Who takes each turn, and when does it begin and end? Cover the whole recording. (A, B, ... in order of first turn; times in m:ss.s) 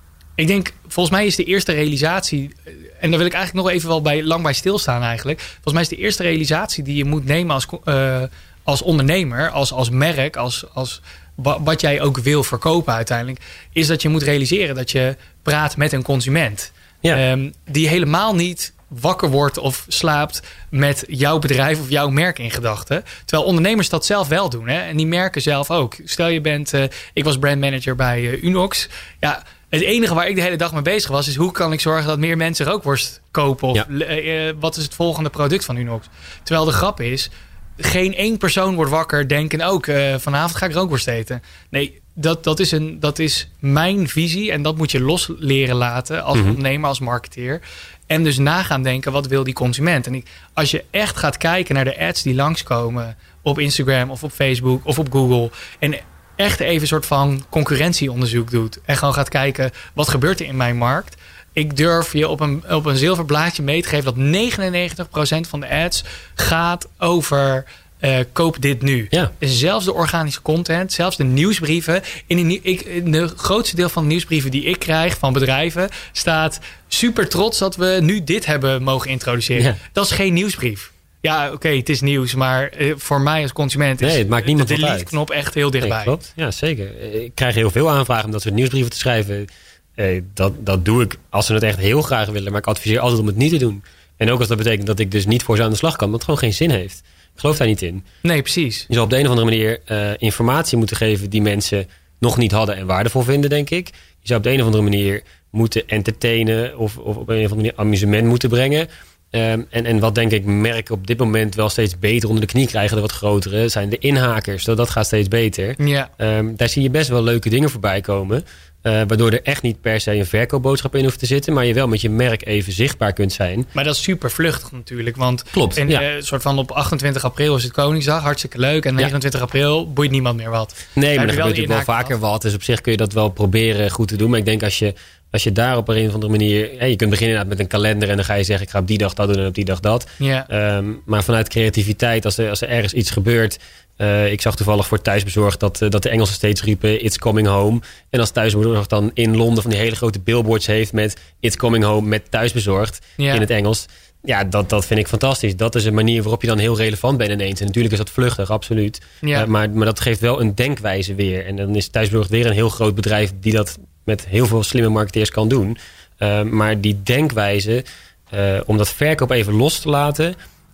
0:00.4-1:26.2 A
1:24.0-1:25.2 B
1:25.8-1:38.0 B
1:38.2-1:38.9 A
1:38.9-2:03.7 B
1:55.8-1:56.1 A
2:03.8-2:12.1 A
2:05.5-2:06.0 B
2:11.0-2:50.4 B
2:20.2-2:20.5 A
2:33.2-2:33.4 A
2:39.2-2:39.5 A